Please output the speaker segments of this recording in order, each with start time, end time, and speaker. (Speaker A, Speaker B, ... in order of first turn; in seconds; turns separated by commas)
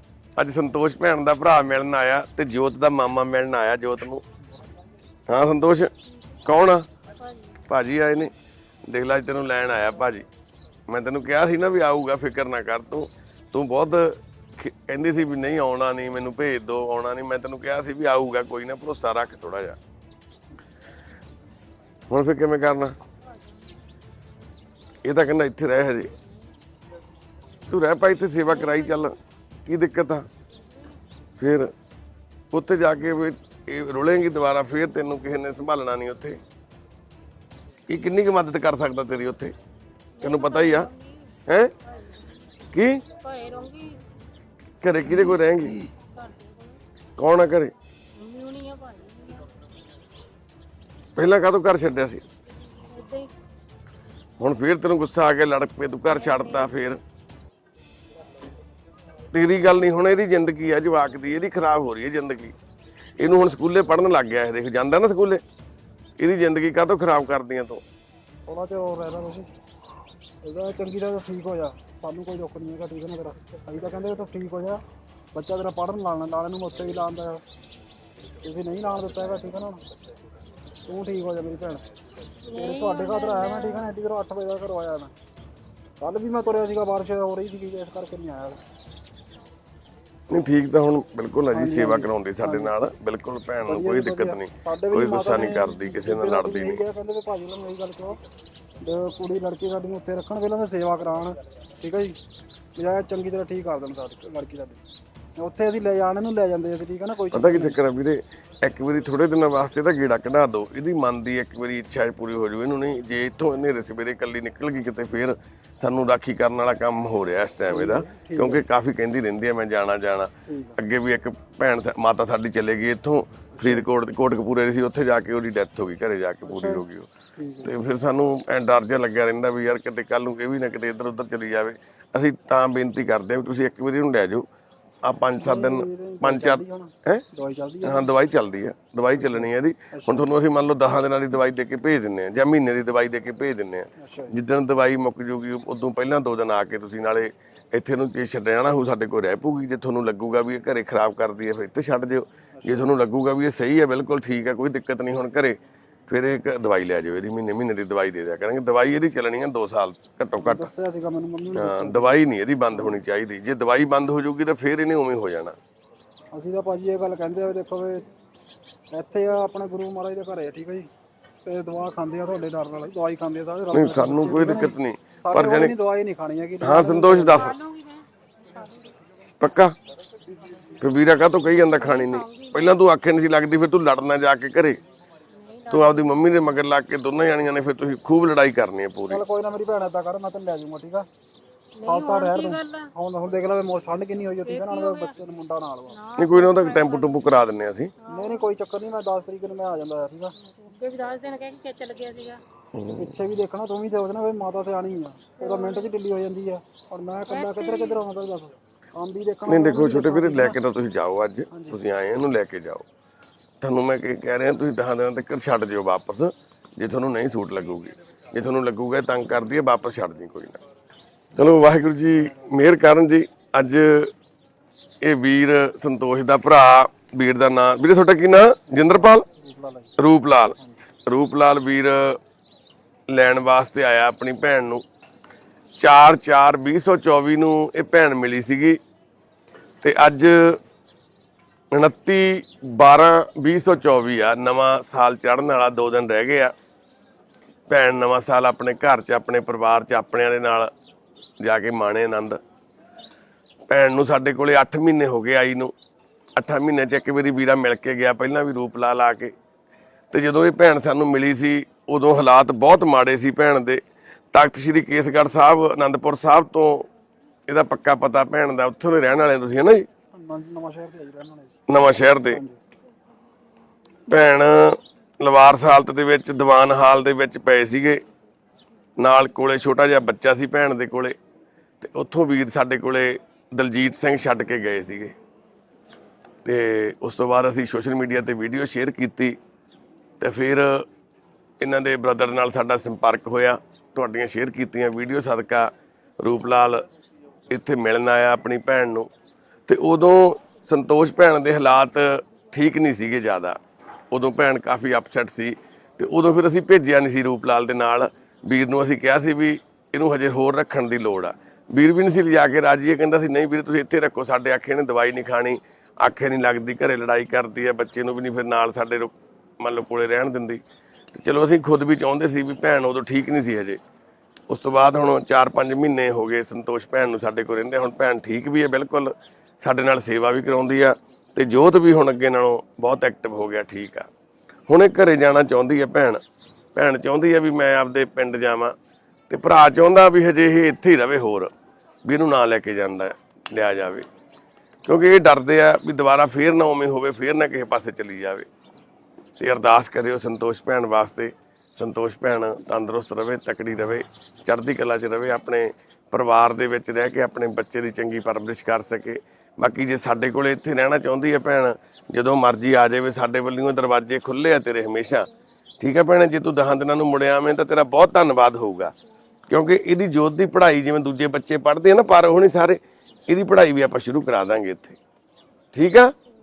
Speaker A: 0.4-4.2, Speaker A: 5.3-5.9, Speaker A: 6.4-6.8, Speaker B: 7.2-7.5, Speaker A: 7.7-8.3, Speaker A: 8.9-10.3, Speaker A: 10.9-19.8, Speaker A: 22.1-22.9, Speaker A: 25.0-26.1, Speaker A: 27.7-29.1, Speaker B: 28.6-29.0, Speaker A: 29.6-30.2, Speaker A: 31.4-31.7, Speaker A: 32.5-36.4, Speaker A: 37.9-39.5, Speaker B: 40.2-41.3, Speaker A: 40.2-40.9, Speaker A: 41.5-41.7, Speaker A: 42.7-43.0, Speaker B: 43.1-44.0, Speaker A: 44.8-45.9, Speaker B: 45.9-46.8, Speaker A: 47.2-47.7, Speaker B: 48.1-49.5, Speaker A: 51.1-52.2, Speaker B: 52.8-53.3, Speaker A: 54.4-57.0, Speaker B: 56.1-56.7, Speaker A: 59.3-62.5, Speaker A: 63.2-65.4, Speaker A: 66.2-67.8, Speaker C: 68.5-69.5, Speaker C: 70.4-74.8, Speaker C: 75.3-77.4, Speaker C: 78.4-79.8, Speaker C: 80.9-81.8, Speaker B: 82.5-83.9, Speaker C: 82.5-85.1, Speaker C: 86.0-88.6, Speaker A: 90.3-96.8, Speaker C: 91.5-92.7, Speaker C: 93.6-98.2, Speaker C: 98.8-102.2, Speaker C: 102.8-104.8, Speaker C: 105.4-107.8, Speaker A: 107.3-127.1, Speaker C: 117.7-118.6, Speaker C: 120.5-120.8, Speaker C: 123.6-123.8, Speaker C: 126.5-126.8, Speaker C: 127.4-127.7, Speaker A: 127.6-134.4, Speaker A: 135.0-137.2, Speaker C: 135.3-138.1, Speaker A: 137.8-155.6, Speaker C: 139.2-140.3, Speaker C: 144.0-144.3, Speaker A: 156.1-160.7, Speaker C: 160.4-162.2, Speaker A: 161.5-165.6, Speaker C: 162.7-163.0, Speaker C: 166.3-168.1, Speaker C: 168.9-170.9, Speaker C: 171.4-177.5, Speaker A: 173.7-175.7, Speaker A: 176.6-177.6, Speaker B: 177.2-179.0, Speaker A: 179.4-179.7, Speaker A: 180.8-184.8, Speaker B: 181.7-182.8, Speaker B: 185.3-186.2, Speaker A: 185.7-189.2, Speaker C: 189.1-191.1, Speaker B: 191.7-192.9, Speaker C: 191.8-196.0, Speaker B: 194.4-195.1, Speaker B: 195.9-197.2, Speaker A: 196.2-197.9, Speaker B: 198.0-198.5, Speaker C: 198.1-200.3, Speaker B: 200.4-202.4, Speaker A: 202.7-203.1, Speaker C: 203.0-210.6, Speaker B: 205.4-205.9, Speaker B: 207.3-208.0, Speaker A: 209.5-212.8, Speaker C: 211.5-211.8, Speaker A: 213.6-220.6, Speaker A: 221.3-224.1, Speaker C: 222.1-222.5, Speaker A: 225.0-229.2, Speaker C: 229.3-229.9, Speaker A: 230.0-232.2, Speaker A: 233.1-234.8, Speaker A: 235.8-238.8, Speaker A: 239.8-240.6, Speaker A: 241.7-246.5, Speaker A: 247.7-250.7, Speaker A: 251.4-252.4, Speaker A: 253.7-255.7, Speaker A: 256.3-259.3, Speaker A: 260.1-263.8, Speaker A: 264.3-266.9, Speaker A: 267.5-269.9, Speaker C: 270.1-271.6, Speaker A: 271.7-272.4, Speaker C: 272.3-272.6, Speaker A: 274.1-278.0, Speaker A: 279.0-281.1, Speaker A: 281.8-285.1, Speaker A: 286.4-289.4, Speaker A: 290.2-290.8, Speaker A: 291.6-296.9, Speaker A: 297.5-299.1, Speaker A: 299.7-303.6, Speaker A: 304.1-320.6, Speaker A: 321.1-323.8, Speaker A: 324.5-334.1, Speaker A: 334.7-336.2, Speaker A: 336.7-338.7, Speaker A: 339.3-341.5, Speaker A: 342.1-344.1, Speaker A: 344.9-348.5, Speaker A: 349.4-365.3, Speaker A: 365.8-368.9, Speaker A: 369.5-375.0, Speaker A: 375.7-376.1